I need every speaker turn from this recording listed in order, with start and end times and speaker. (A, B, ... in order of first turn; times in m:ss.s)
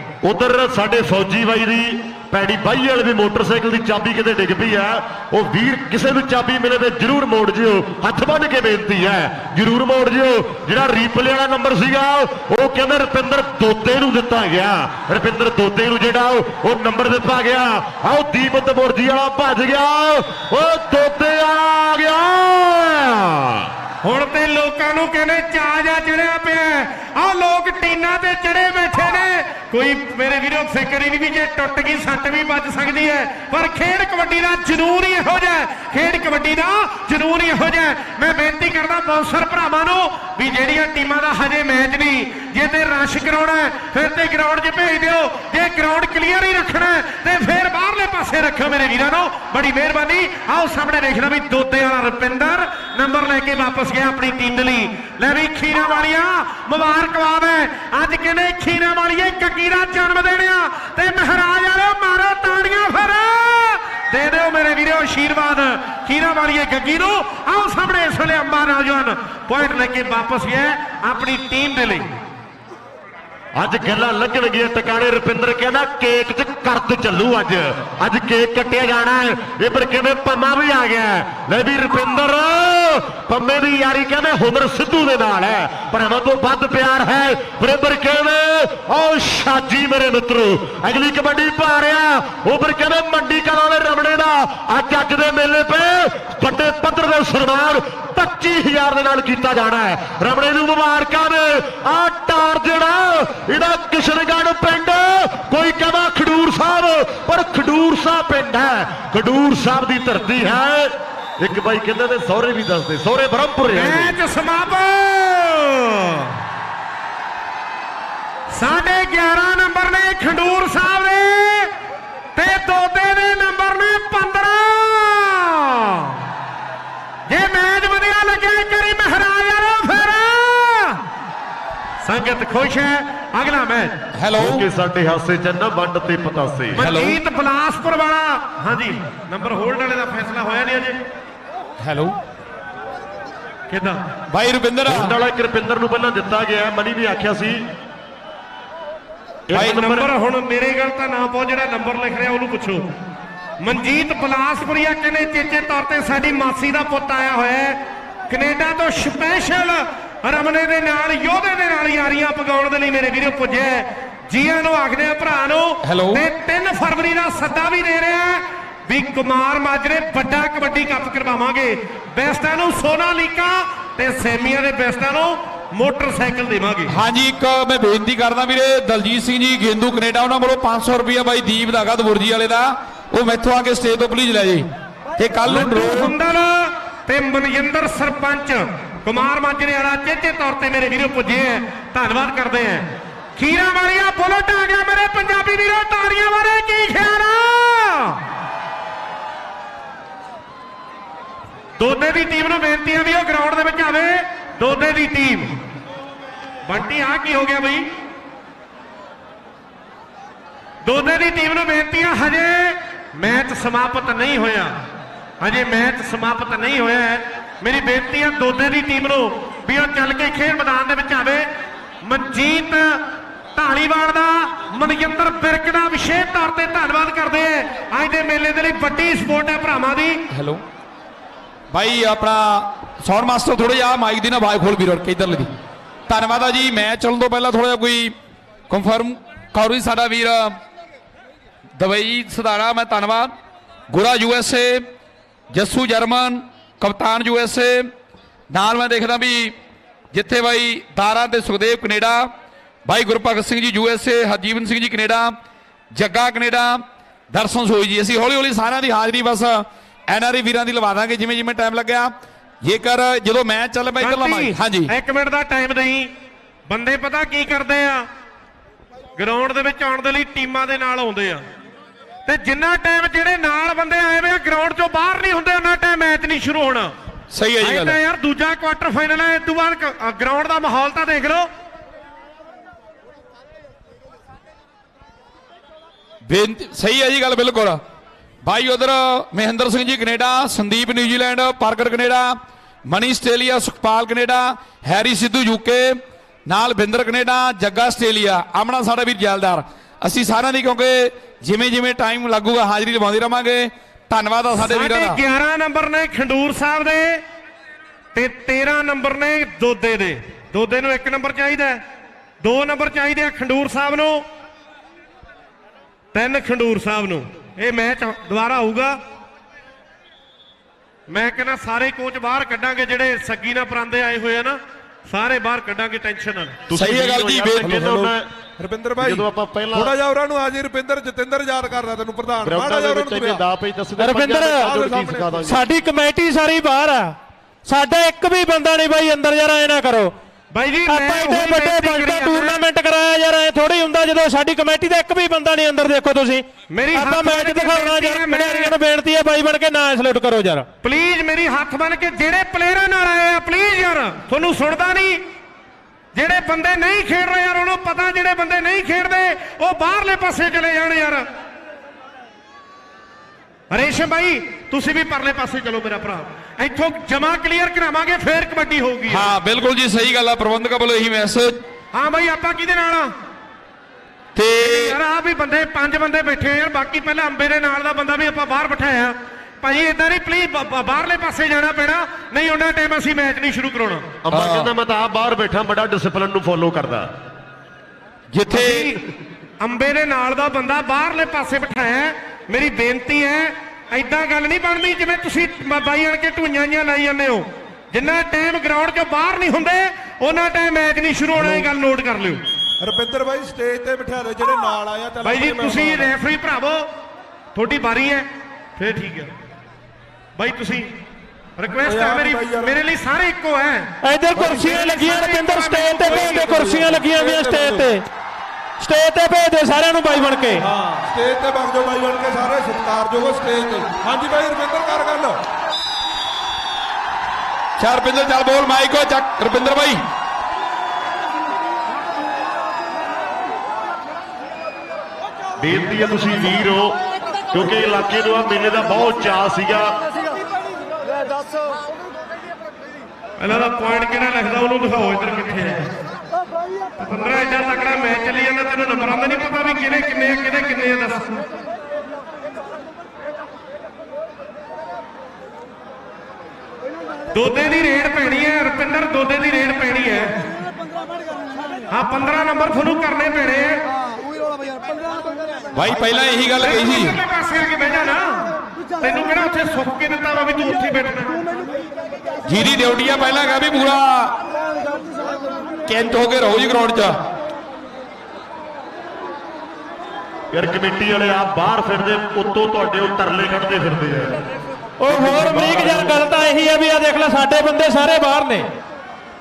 0:00.2-0:23.7 A
0:24.0-1:12.1 B
1:13.6-1:54.2 A
1:53.7-1:56.4 B
1:58.5-2:01.7 B
2:02.3-2:06.2 B
2:07.3-2:11.0 B
2:12.0-2:13.9 B
2:14.2-2:14.7 C
2:14.4-2:16.8 A
2:16.8-2:21.0 B
2:16.8-2:17.2 C
2:21.8-2:22.2 C
2:23.7-2:24.0 B
2:24.3-2:25.1 C
2:24.8-2:27.6 A
2:29.5-2:30.1 A
2:29.6-2:32.9 B
2:33.6-2:56.9 B
2:45.8-2:46.2 C
2:56.9-3:06.1 C
3:05.4-3:18.2 B
3:21.8-3:25.5 B
3:26.6-3:27.9 B
3:30.8-3:34.7 B
3:35.4-3:41.4 B
3:42.0-3:43.0 B
3:43.5-3:50.2 B
3:50.3-3:50.6 C
3:51.7-3:55.5 C
3:56.1-3:58.1 C
3:58.7-4:00.6 C
4:01.8-4:03.3 C
4:03.9-4:04.8 C
4:05.5-4:07.9 C
4:08.5-4:09.5 C
4:10.1-4:12.3 C
4:12.8-4:15.4 C
4:15.9-4:22.1 C
4:22.6-4:24.9 C
4:24.0-4:26.1 B
4:26.7-4:28.0 B
4:29.2-4:31.4 B
4:32.2-4:36.9 B
4:37.3-4:38.0 C
4:37.6-4:41.5 B
4:46.3-4:47.8 C
4:48.4-4:52.3 C
4:52.9-5:05.2 C
5:04.5-5:07.2 B
5:08.1-5:11.8 B
5:12.4-5:14.2 B
5:16.1-5:19.0 B
5:21.1-5:26.6 B
5:26.7-5:28.2 A
5:26.7-5:27.8 C
5:27.6-5:33.4 D
5:29.0-5:29.9 A
5:32.4-5:35.7 A
5:34.0-5:34.6 E
5:34.6-5:35.5 D
5:35.5-5:37.1 E
5:37.6-5:40.1 E
5:40.5-5:42.7 B
5:40.9-5:50.6 E
5:46.7-5:48.8 B
5:50.8-5:55.2 B
5:56.1-6:01.2 B
6:03.7-6:09.3 B
6:09.1-6:11.6 C
6:11.9-6:13.1 B
6:14.3-6:15.0 C
6:14.6-6:24.1 B
6:24.2-6:27.1 A
6:24.3-6:24.7 C
6:28.3-6:28.9 C
6:28.5-6:29.0 B
6:29.6-6:42.4 B
6:41.4-6:41.7 D
6:42.8-6:46.1 D
6:45.2-6:46.8 B
6:47.5-6:48.2 B
6:48.8-6:49.3 B
6:50.4-6:50.9 B
6:51.6-6:56.8 B
6:51.8-6:52.7 D
6:54.0-6:58.1 E
6:56.6-6:57.9 D
6:58.8-7:00.6 E
7:00.6-7:05.4 D
7:07.8-7:10.0 C
7:15.6-7:17.0 A
7:17.5-7:19.9 A
7:23.4-7:25.9 B
7:27.0-7:31.4 B
7:37.3-7:40.4 B
7:41.9-7:43.8 B
7:45.7-7:47.2 C
7:46.6-7:48.5 B
7:49.0-7:51.4 B
7:52.5-7:54.3 C
7:55.9-7:57.1 C
8:00.5-8:04.4 A
8:05.0-8:08.7 E
8:05.1-8:06.2 A